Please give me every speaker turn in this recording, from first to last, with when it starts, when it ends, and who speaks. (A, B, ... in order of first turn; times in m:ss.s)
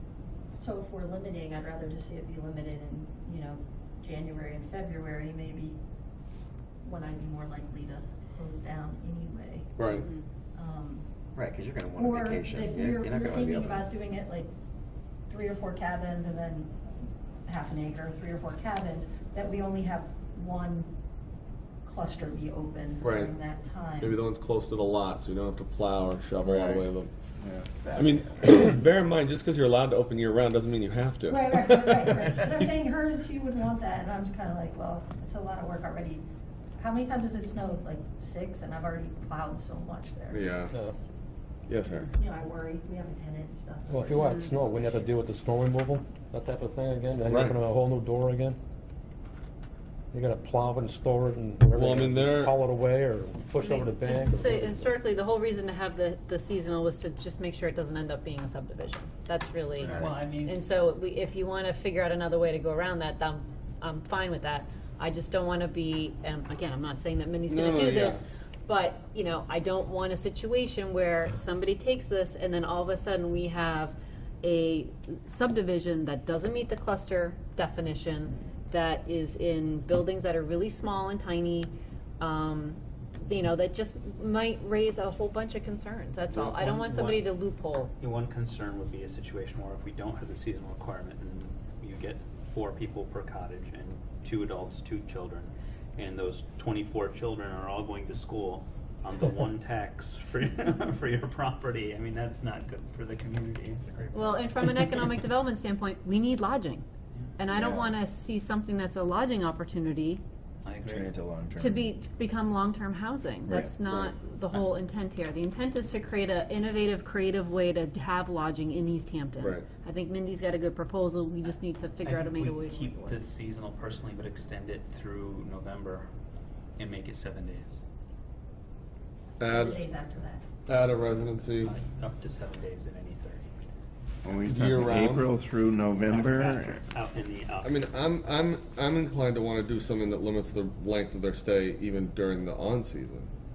0:00.6-0:05.8 A
0:06.8-0:09.7 A
0:09.8-0:10.1 B
0:10.0-0:10.2 C
0:10.5-0:11.0 A
0:11.3-0:13.9 D
0:11.9-0:14.5 A
0:15.3-0:16.7 A
0:17.4-0:20.9 A
0:21.8-0:24.2 A
0:23.0-0:23.4 B
0:24.0-0:27.1 B
0:26.4-0:26.9 E
0:27.4-0:28.6 E
0:27.9-0:32.2 B
0:31.3-0:36.2 A
0:36.8-0:40.6 A
0:40.3-0:40.8 B
0:41.7-0:42.1 B
0:42.1-0:44.8 A
0:43.9-0:48.6 F
0:44.2-0:44.5 C
0:47.3-0:47.6 B
0:50.1-0:54.9 F
0:51.8-0:52.6 B
0:53.6-1:27.9 C
0:59.8-1:00.1 E
0:59.9-1:00.6 G
1:07.4-1:08.2 B
1:26.3-1:27.3 G
1:28.0-1:45.0 G
1:44.1-1:46.8 C
1:47.4-1:50.2 C
1:50.6-1:51.1 G
1:50.8-1:51.8 D
1:51.6-2:03.2 C
1:53.4-1:53.7 D
1:53.8-1:54.2 B
1:59.4-1:59.7 B
2:02.0-2:06.1 G
2:06.8-2:07.8 G
2:09.4-2:09.8 B
2:09.4-2:10.4 A
2:10.6-2:11.8 B
2:11.6-2:13.4 G
2:14.2-2:16.8 E
2:14.5-2:15.3 B
2:16.0-2:17.8 G
2:17.6-2:23.3 B